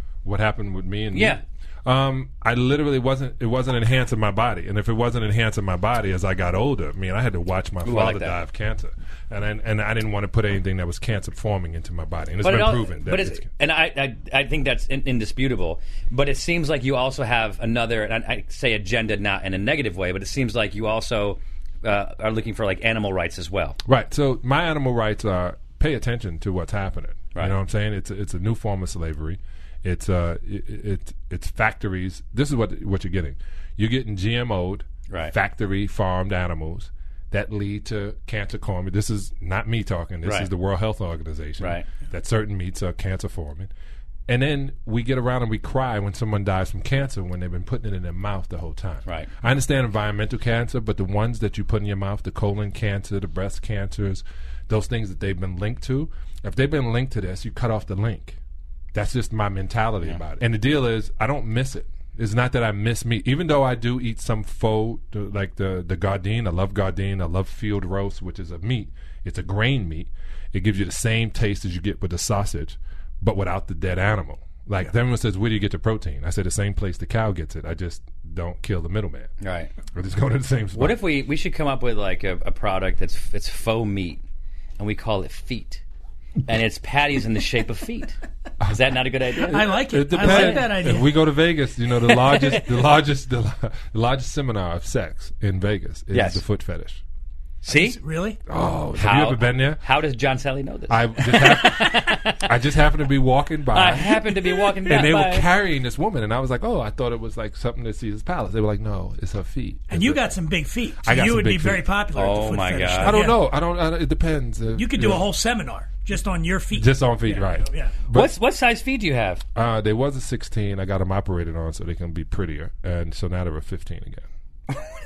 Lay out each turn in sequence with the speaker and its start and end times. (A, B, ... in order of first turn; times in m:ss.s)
0:00.2-0:13.5 A
0:01.1-0:01.4 B
0:07.8-0:08.4 B
0:12.4-0:23.8 B
0:23.8-0:43.7 A
0:35.1-0:35.4 B
0:40.2-0:40.5 B
0:41.6-0:41.9 B
0:44.3-0:58.4 A
0:58.9-1:19.3 A
1:19.4-1:19.7 B
1:19.9-1:21.0 A
1:20.7-1:24.2 B
1:24.8-1:25.8 B
1:26.5-1:28.2 B
1:28.6-1:37.0 A
1:28.7-1:30.7 B
1:29.5-1:31.2 C
1:36.1-1:36.4 B
1:37.6-1:38.0 B
1:37.7-1:38.4 C
1:38.5-1:39.8 A
1:39.0-1:42.5 B
1:40.9-1:50.4 A
1:43.7-1:45.5 B
1:49.9-1:53.4 C
1:51.0-1:51.9 A
1:52.1-1:53.2 B
1:53.0-1:55.3 A
1:54.8-1:58.0 C
1:56.7-1:58.3 A
1:58.1-1:59.4 B
1:59.6-2:04.3 A